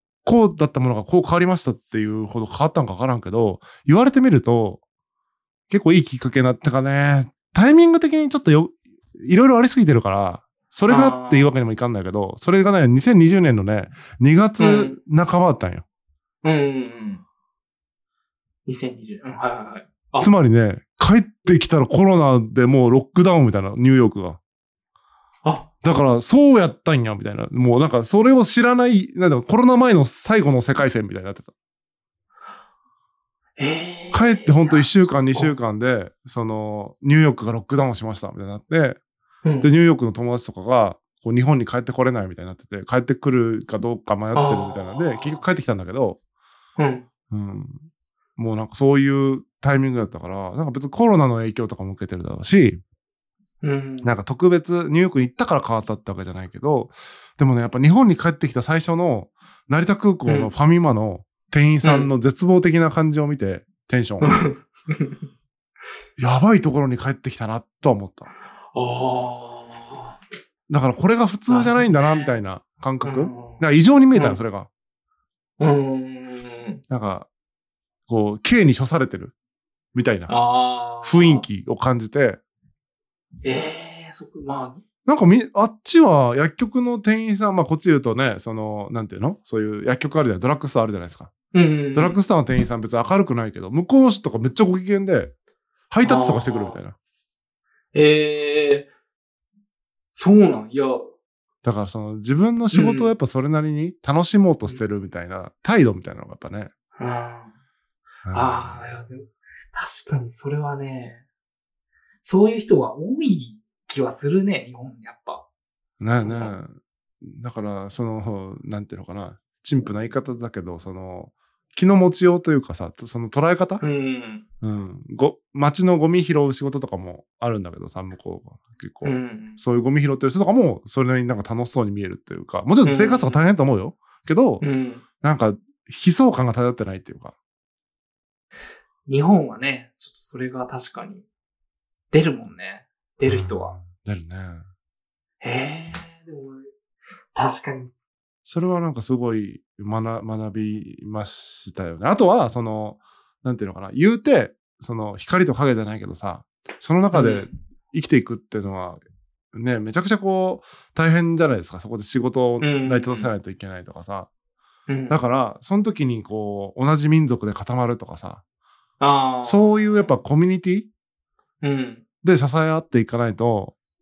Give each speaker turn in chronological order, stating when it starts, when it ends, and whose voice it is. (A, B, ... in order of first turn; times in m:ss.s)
0:00.2-0:04.8 A
0:05.7-0:15.8 A
0:10.9-0:11.5 B
0:14.6-0:15.0 B
0:16.4-0:17.2 B
0:18.6-0:20.3 B
0:20.2-0:24.4 A
0:25.8-0:31.5 A
0:33.6-0:35.5 B
0:34.1-0:39.0 A
0:39.6-0:46.2 A
0:44.3-0:45.4 B
0:46.8-0:47.0 B
0:47.3-0:47.8 A
0:48.4-0:52.8 A
0:53.6-0:54.1 B
0:54.0-1:04.4 A
1:00.2-1:00.5 B
1:01.8-1:02.1 B
1:04.2-1:05.2 B
1:06.2-1:08.3 A
1:08.7-1:10.2 B
1:10.7-1:14.7 A
1:11.5-1:12.4 B
1:13.0-1:13.6 B
1:14.1-1:14.4 B
1:15.6-1:16.8 B
1:16.9-1:17.3 A
1:18.1-1:19.3 A
1:19.9-1:20.3 A
1:20.3-1:21.4 B
1:21.0-1:22.4 A
1:23.4-1:24.8 B
1:25.0-1:31.3 A
1:31.5-1:32.2 B
1:31.9-1:35.3 A
1:35.9-1:36.9 A
1:36.0-1:36.8 B
1:37.9-1:38.9 B
1:40.1-1:41.0 B
1:41.6-1:46.7 A
1:42.7-1:43.1 B
1:47.0-1:47.5 B
1:48.2-1:48.9 A
1:48.3-1:51.2 B
1:52.2-1:55.4 B
1:56.0-2:03.8 A
1:56.2-1:56.6 B
2:03.8-2:04.4 B
2:04.6-2:14.6 A
2:09.0-2:09.6 B
2:12.8-2:13.4 B
2:14.6-2:15.0 B
2:15.2-2:17.3 A
2:19.1-2:21.2 B
2:22.1-2:23.7 B
2:23.2-2:24.7 A
2:25.4-2:26.7 B
2:27.3-2:27.9 B
2:28.4-2:39.0 A
2:37.1-2:37.5 B
2:39.5-2:44.3 A
2:42.6-2:43.3 B
2:44.9-2:45.2 B
2:45.1-2:48.4 A
2:49.0-2:50.1 B
2:49.4-2:50.9 A
2:51.6-2:52.0 B
2:52.2-2:53.7 A